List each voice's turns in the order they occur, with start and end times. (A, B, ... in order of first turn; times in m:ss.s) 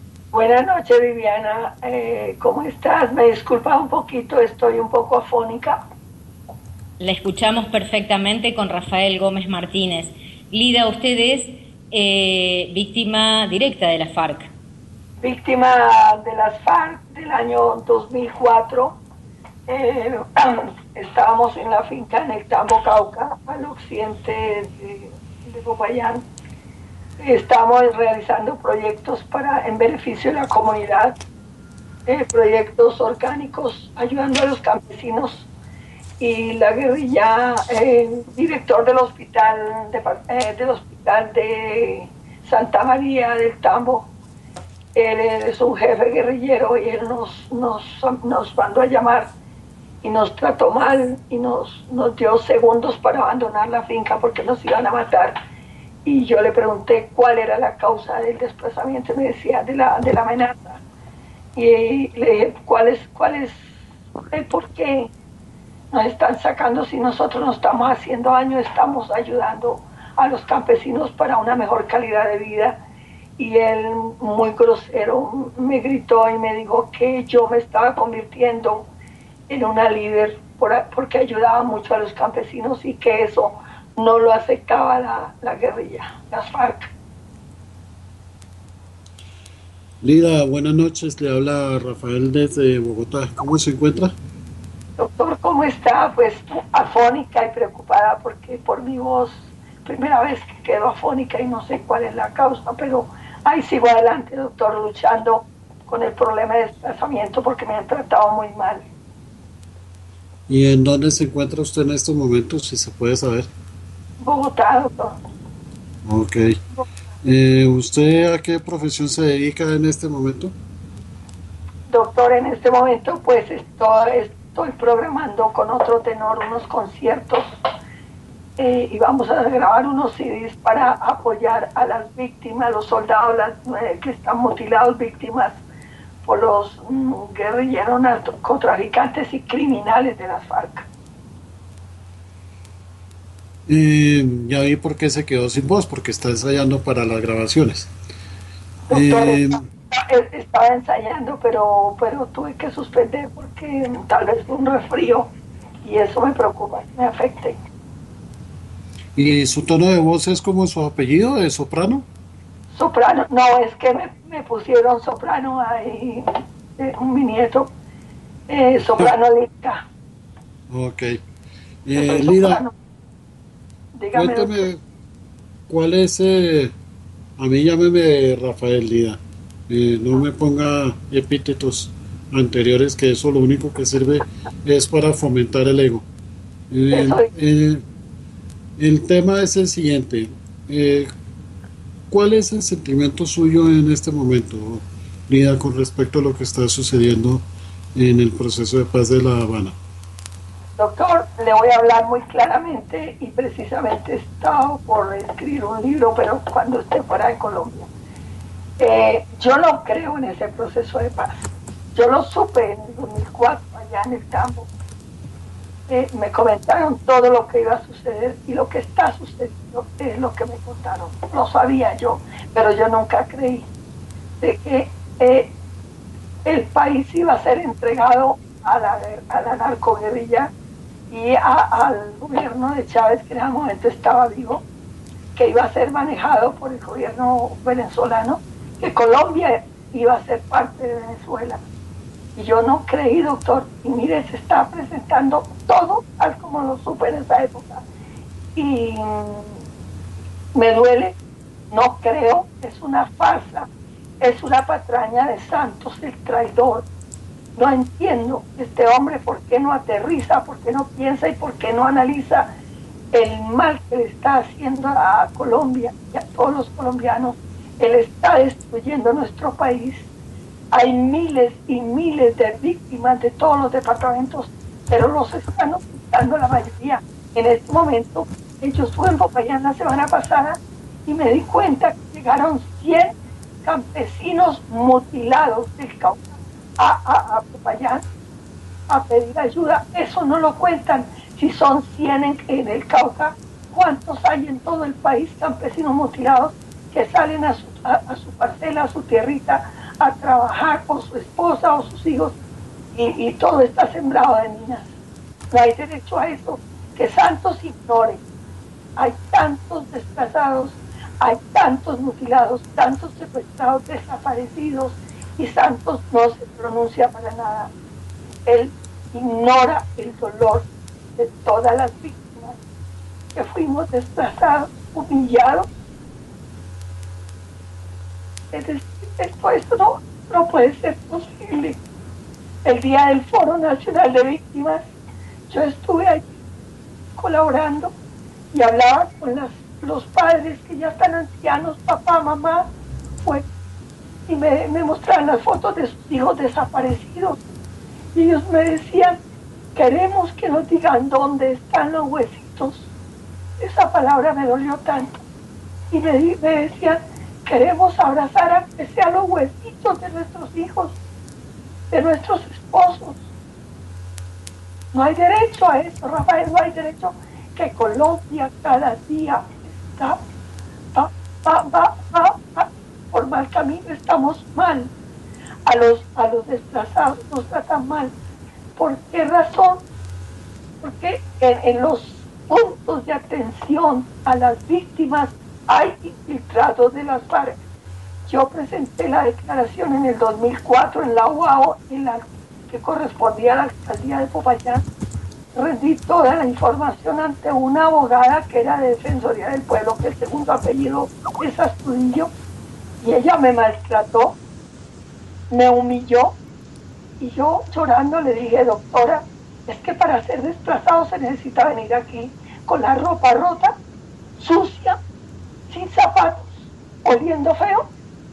0:00.3-0:05.8 A
0:07.0-0:14.5 B
0:15.2-0:19.0 A
0:19.7-0:26.2 A
0:27.2-0:31.2 A
0:32.0-0:35.5 A
0:36.2-0:44.1 A
0:45.0-0:49.3 A
0:50.0-0:55.4 A
0:56.0-1:00.8 A
1:01.6-1:03.7 A
1:04.3-1:05.1 A
1:05.9-1:12.8 A
1:13.4-1:18.9 A
1:19.5-1:26.9 A
1:30.0-1:34.1 C
1:35.0-1:48.8 A
1:50.5-1:53.5 C
1:54.2-1:55.2 A
1:56.0-1:56.6 C
1:57.2-2:00.5 C
2:01.9-2:07.5 A
2:08.6-2:15.6 A
2:16.2-2:20.9 A
2:23.7-2:27.9 C
2:28.9-2:35.3 A
2:28.9-2:29.6 C
2:35.8-2:37.6 A
2:39.2-2:42.1 C
2:42.7-2:47.7 A
2:48.5-2:49.9 A
2:50.7-2:51.2 C
2:51.8-2:52.6 C
2:52.0-2:52.7 A
2:54.0-2:54.7 A
2:54.2-2:54.8 C
2:55.7-2:56.7 C
2:57.4-2:59.2 C
2:59.7-3:06.1 C
3:06.7-3:07.8 C
3:06.9-3:07.3 A
3:08.8-3:11.1 C
3:12.1-3:17.4 C
3:18.0-3:19.8 C
3:20.8-3:27.9 A
3:28.8-3:34.7 A
3:35.9-3:43.7 A
3:44.4-3:45.5 A
3:46.4-3:50.5 A
3:51.1-3:54.6 A
3:55.3-4:01.6 A
4:02.4-4:07.8 A
4:08.6-4:09.6 A
4:10.6-4:11.2 A
4:11.7-4:13.7 A
4:14.2-4:16.8 A
4:17.6-4:22.5 A
4:23.1-4:30.1 A
4:30.7-4:48.0 A
4:48.9-5:02.4 A
5:02.9-5:04.9 A
5:05.5-5:08.2 A
5:09.0-5:17.7 A
5:18.4-5:22.6 A
5:23.3-5:25.7 A
5:28.5-5:31.8 A
5:32.6-5:34.9 A
5:35.5-5:36.3 A
5:37.2-5:37.9 A
5:38.5-5:42.7 A
5:44.3-5:47.4 A
5:48.1-5:49.2 A
5:49.8-5:52.9 A
5:53.6-5:55.2 A
5:55.9-6:01.0 A
6:01.9-6:03.2 A
6:04.9-6:10.2 A
6:10.9-6:14.9 A
6:15.7-6:18.1 A
6:18.8-6:19.8 A
6:20.8-6:27.6 A
6:28.2-6:34.8 A
6:35.5-6:42.3 A
6:43.0-6:44.4 A
6:45.5-6:46.4 A
6:47.2-6:53.8 A
6:54.4-6:55.0 A
6:55.7-6:57.9 A